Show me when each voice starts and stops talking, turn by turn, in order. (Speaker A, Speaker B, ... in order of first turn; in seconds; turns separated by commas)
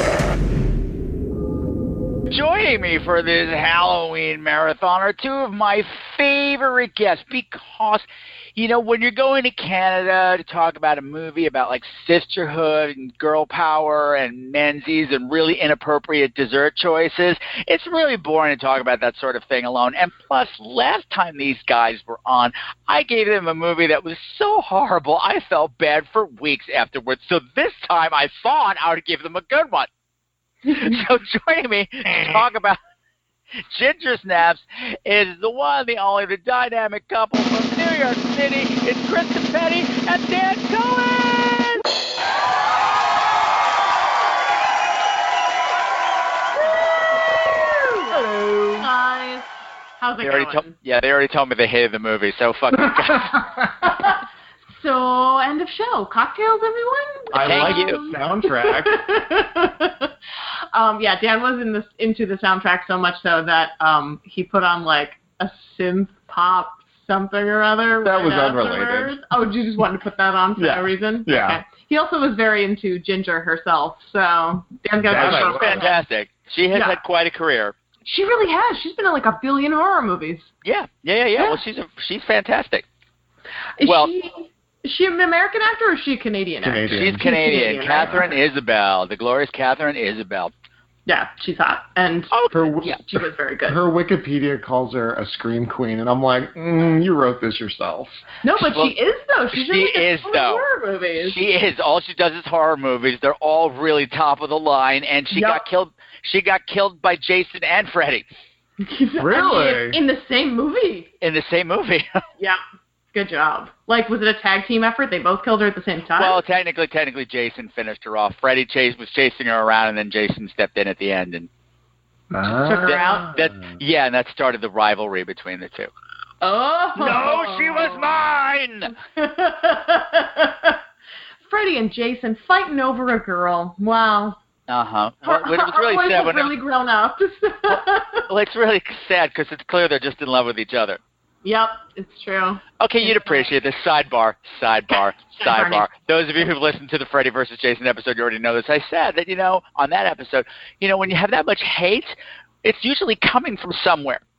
Speaker A: 2.3-29.9, Speaker A: 30.7-32.8, Speaker A: 33.7-41.8, Speaker B: 47.3-50.7, Speaker C: 48.1-48.9, Speaker A: 50.2-53.4, Speaker C: 53.3-53.9, Speaker B: 54.7-60.1, Speaker C: 57.3-59.0, Speaker A: 57.4-58.0, Speaker B: 60.7-76.0, Speaker C: 68.0-69.2, Speaker C: 70.6-71.6, Speaker C: 75.0-75.9, Speaker A: 75.2-77.7, Speaker B: 76.7-77.0, Speaker B: 78.0-80.5, Speaker A: 80.6-82.8, Speaker B: 83.8-88.3, Speaker A: 83.8-84.1, Speaker C: 86.6-87.2, Speaker A: 86.9-90.5, Speaker B: 91.1-93.8, Speaker A: 92.3-93.0, Speaker C: 92.5-93.0, Speaker C: 93.7-98.2, Speaker B: 98.4-101.4, Speaker A: 98.6-98.9, Speaker A: 99.5-100.6, Speaker A: 101.2-108.3, Speaker B: 105.3-105.6, Speaker B: 108.8-111.1, Speaker C: 109.2-110.0, Speaker A: 111.2-112.2, Speaker B: 113.1-116.4, Speaker A: 116.2-121.5, Speaker C: 122.3-123.6, Speaker B: 122.7-123.3, Speaker A: 122.7-125.9, Speaker B: 126.4-128.2, Speaker A: 127.0-128.9, Speaker B: 128.9-130.8, Speaker B: 131.5-134.4, Speaker A: 134.7-136.5, Speaker B: 135.2-138.2, Speaker A: 137.7-141.0, Speaker B: 141.4-143.5, Speaker A: 142.8-154.2, Speaker B: 144.9-145.8